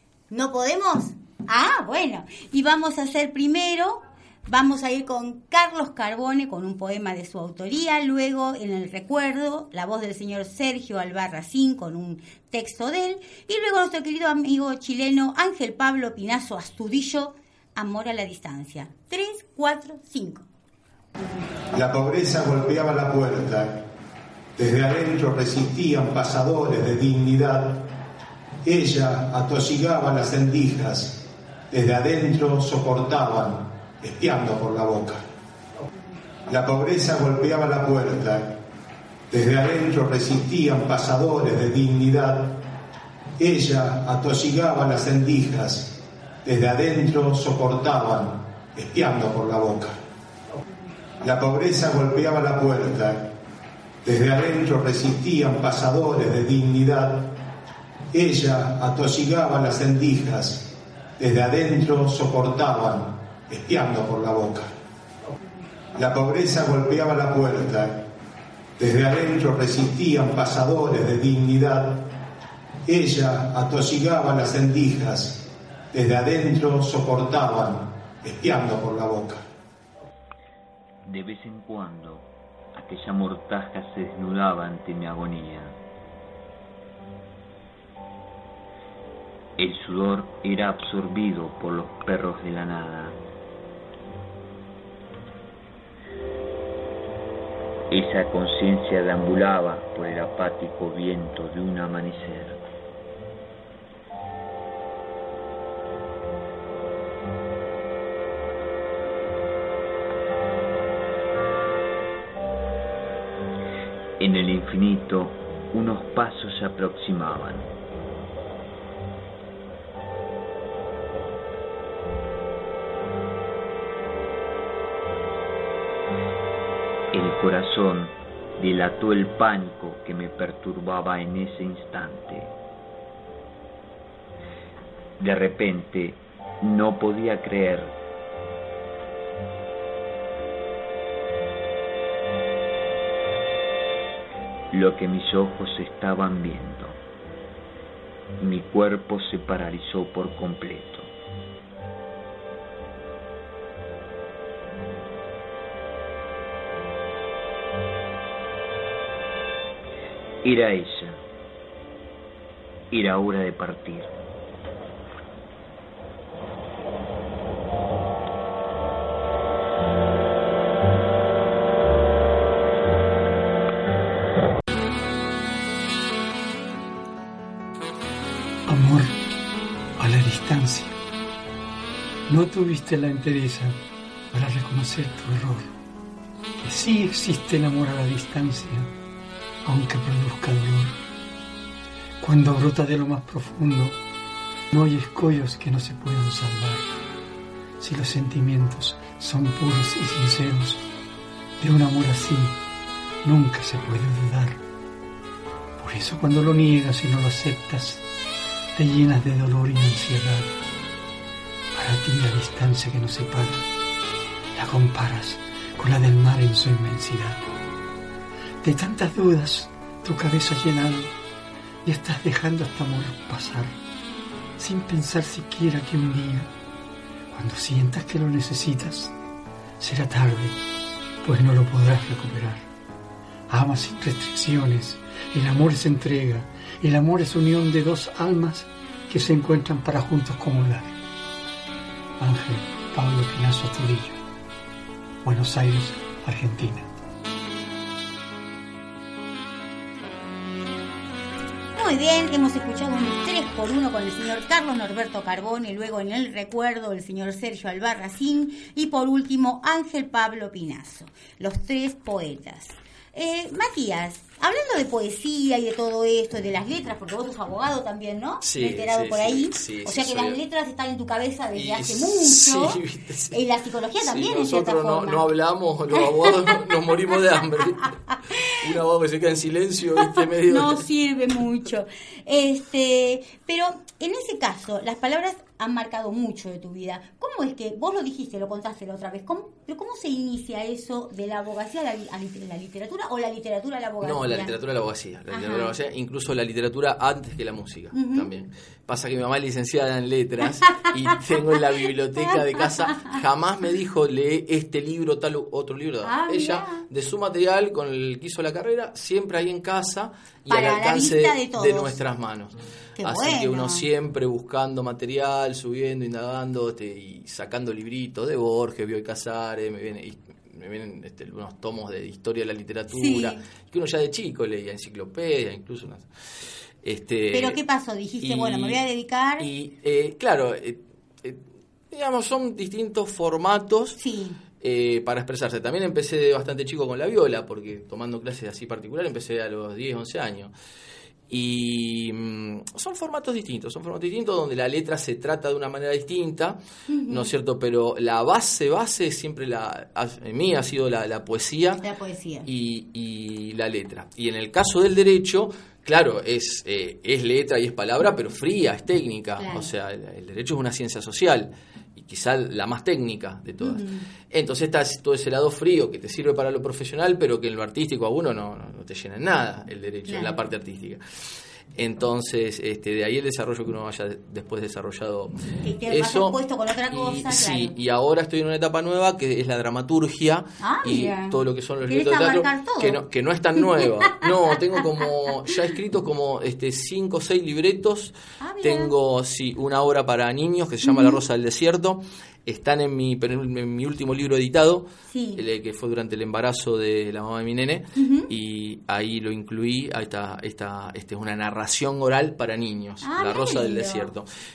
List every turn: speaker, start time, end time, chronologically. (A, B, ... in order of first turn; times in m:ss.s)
0:00.3-0:20.4 A
0:21.7-0:23.9 B
0:24.6-0:27.9 B
0:28.6-0:35.2 B
0:36.5-0:38.6 B
0:39.3-0:42.6 B
0:43.4-0:50.0 B
0:51.2-0:53.3 B
0:54.0-0:57.4 B
0:58.1-1:04.7 B
1:05.9-1:08.1 B
1:08.8-1:12.1 B
1:12.8-1:19.4 B
1:21.1-1:25.8 C
1:29.6-1:33.2 C
1:37.9-1:42.6 C
1:54.2-1:57.7 C
2:07.1-2:12.5 C
2:15.2-2:17.9 C
2:24.7-2:27.0 C
2:28.4-2:31.1 C
2:40.4-2:41.2 C
2:42.9-2:44.1 C
2:58.7-2:59.1 D
3:00.0-3:00.9 D
3:02.3-3:03.8 D
3:04.3-3:05.7 D
3:06.6-3:08.9 D
3:09.6-3:10.9 D
3:12.2-3:14.0 D
3:14.7-3:16.8 D
3:17.8-3:20.8 D
3:21.6-3:22.6 D
3:23.2-3:24.6 D
3:25.8-3:28.0 D
3:28.7-3:30.5 D
3:31.7-3:33.6 D
3:34.5-3:37.4 D
3:38.6-3:41.1 D
3:41.8-3:43.7 D
3:44.6-3:46.5 D
3:47.3-3:49.1 D
3:49.8-3:50.6 D
3:51.2-3:52.6 D
3:53.5-4:00.9 D
4:02.2-4:04.2 D
4:05.2-4:06.9 D
4:11.8-4:32.8 A
4:28.4-4:30.4 E
4:31.5-4:33.4 E
4:33.3-4:35.3 A
4:34.0-4:40.8 E
4:40.1-4:54.5 A
4:54.0-5:26.1 E
4:55.3-4:55.7 A
4:57.9-4:58.3 A
5:06.0-5:06.8 A
5:10.5-5:12.0 A
5:13.0-5:13.8 A
5:22.9-5:23.4 A
5:26.8-5:27.6 E
5:27.3-5:29.5 A
5:28.2-5:28.8 E
5:29.4-5:34.0 E
5:34.0-5:34.4 A
5:34.6-5:40.5 E
5:41.3-5:51.8 E
5:46.9-5:47.3 A
5:51.8-5:52.5 A
5:52.4-6:11.0 E
5:59.4-5:59.7 A
6:03.6-6:04.1 A
6:10.1-6:10.4 A
6:11.8-6:15.4 E
6:15.6-6:17.7 A
6:15.9-6:16.4 E
6:16.9-6:44.2 E
6:20.6-6:23.0 A
6:28.4-6:28.9 A
6:30.8-6:31.2 A
6:35.1-6:35.4 A
6:38.0-6:38.3 A
6:43.0-6:44.1 A